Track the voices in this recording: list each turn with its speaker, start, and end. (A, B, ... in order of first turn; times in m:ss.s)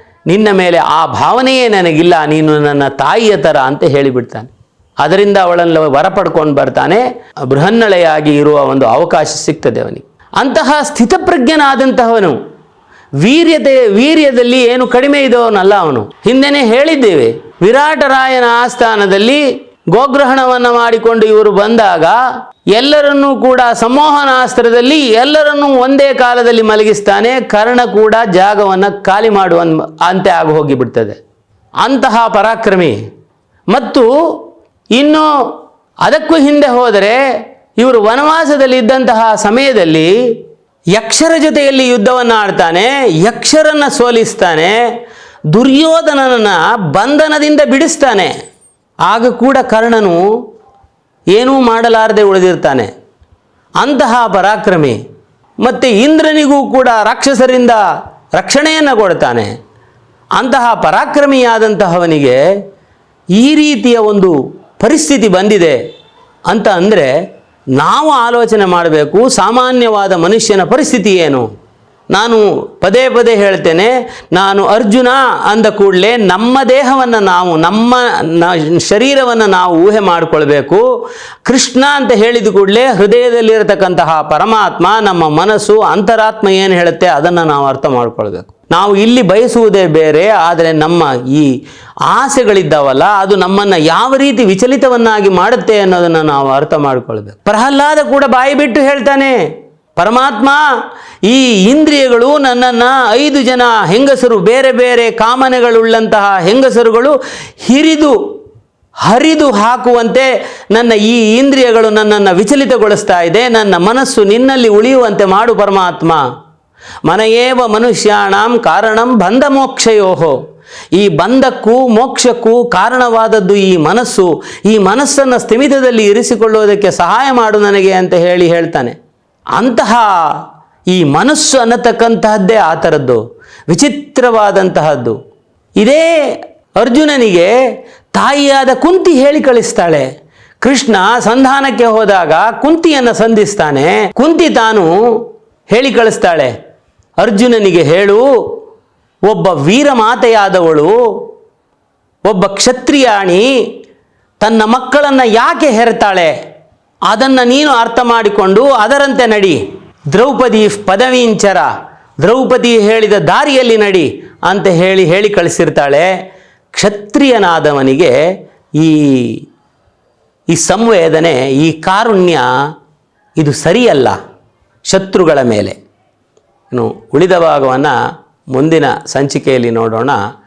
0:00.3-0:04.5 A
0:05.0-0:12.4 A
0:13.2-0:22.2 A
0:22.7-0:31.2 A
0:31.8-0:33.0 A
0:33.7-0:35.3 A
0:36.0-0:37.2 A
0:37.8-0:40.3 A
0:40.9-0:44.8 A
0:45.5-0:48.3 A
0:49.1-0:50.2 A
0:51.3-0:52.9 A
0:53.8-0:55.0 A
0:55.6-0:57.8 A
0:58.4-0:59.5 A
1:00.4-1:02.4 A
1:03.4-1:05.8 A
1:06.5-1:07.1 A
1:07.8-1:11.5 A
1:12.1-1:20.9 A
1:21.4-1:31.5 A
1:32.0-1:39.4 A
1:40.0-1:40.7 A
1:41.3-1:48.2 A
1:49.0-1:56.2 A
1:57.0-2:00.4 A
2:00.9-2:09.0 A
2:09.6-2:15.2 A
2:15.8-2:17.5 A
2:18.1-2:20.1 A
2:20.6-2:26.5 A
2:27.2-2:28.6 A
2:29.2-2:31.2 A
2:32.2-2:33.5 A
2:34.4-2:36.3 A
2:37.1-2:41.7 A
2:42.2-2:46.1 A
2:46.7-2:48.2 A
2:48.8-2:49.4 A
2:50.5-2:52.5 A
2:53.4-2:54.2 A
2:54.8-2:55.8 A
2:56.7-2:58.0 A
2:58.5-3:00.2 A